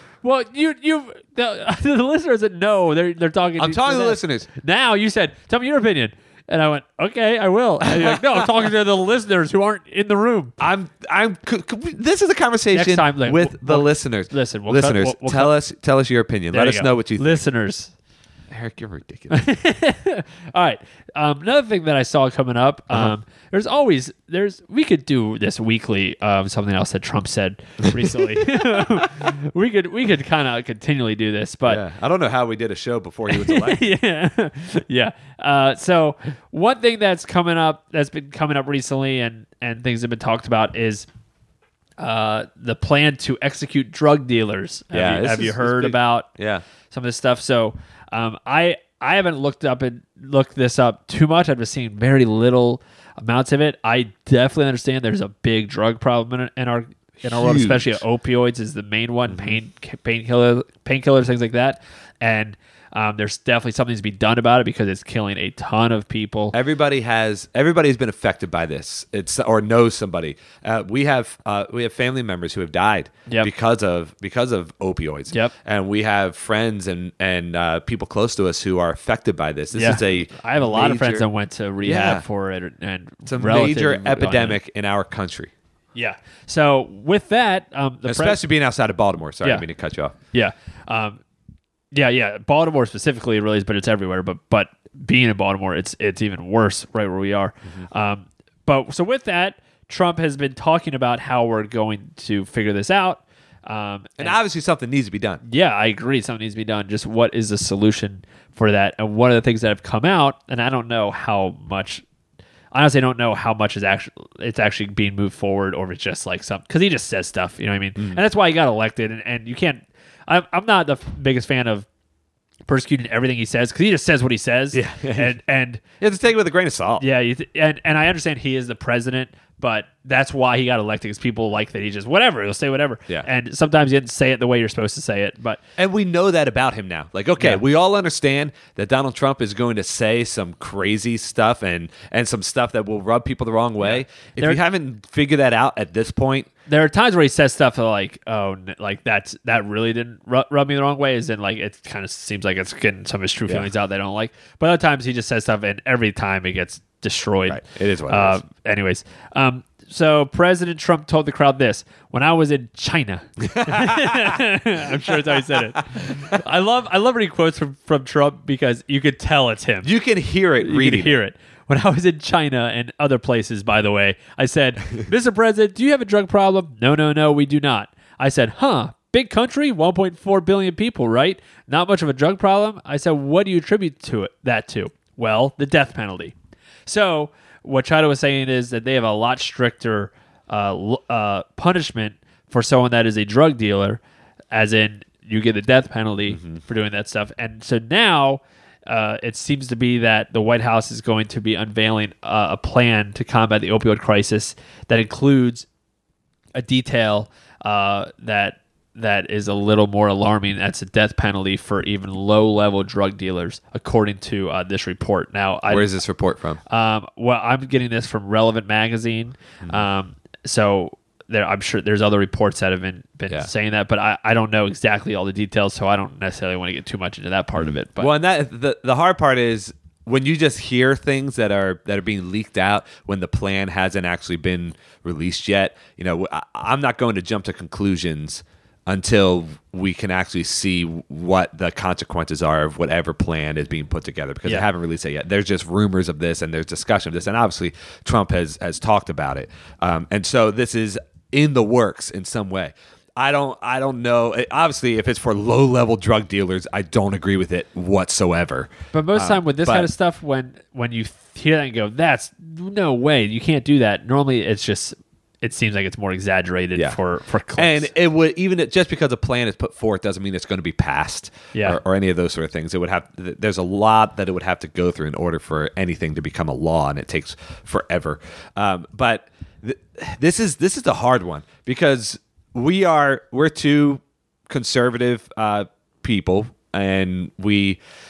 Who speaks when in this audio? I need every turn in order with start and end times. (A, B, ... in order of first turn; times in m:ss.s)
0:00.2-0:10.6 A
0:03.6-0:04.5 B
0:07.8-0:08.5 B
0:10.6-0:17.4 B
0:12.7-0:15.6 A
0:16.5-0:17.9 A
0:18.5-0:19.4 B
0:19.3-0:31.8 A
0:27.9-0:29.1 B
0:31.7-0:33.9 B
0:33.3-0:41.1 A
0:42.0-0:46.3 A
0:44.9-0:46.6 B
0:46.9-1:06.6 A
0:57.2-0:58.0 B
0:59.3-0:59.6 B
1:06.5-1:21.3 B
1:19.7-1:24.6 A
1:21.8-1:22.2 B
1:23.3-1:25.5 B
1:26.0-1:28.4 A
1:28.0-1:30.2 B
1:30.3-1:31.2 A
1:31.9-1:44.4 A
1:44.2-1:45.4 B
1:45.4-1:52.0 A
1:52.7-2:01.9 A
2:02.7-2:05.8 A
2:04.7-2:05.4 B
2:06.0-2:07.0 B
2:07.0-2:15.6 A
2:15.8-2:26.5 B
2:23.8-2:24.6 A
2:26.7-2:49.9 A
2:37.5-2:38.4 B
2:43.4-2:45.6 B
2:49.8-2:51.2 B
2:50.6-3:06.4 A
3:06.9-3:14.0 A
3:14.5-3:25.7 A
3:16.3-3:16.6 B
3:26.6-3:36.0 A
3:35.7-3:36.6 B
3:36.7-3:48.1 A
3:47.6-4:19.9 B
4:18.9-4:27.9 A
4:27.6-4:47.8 B
4:31.5-4:31.8 A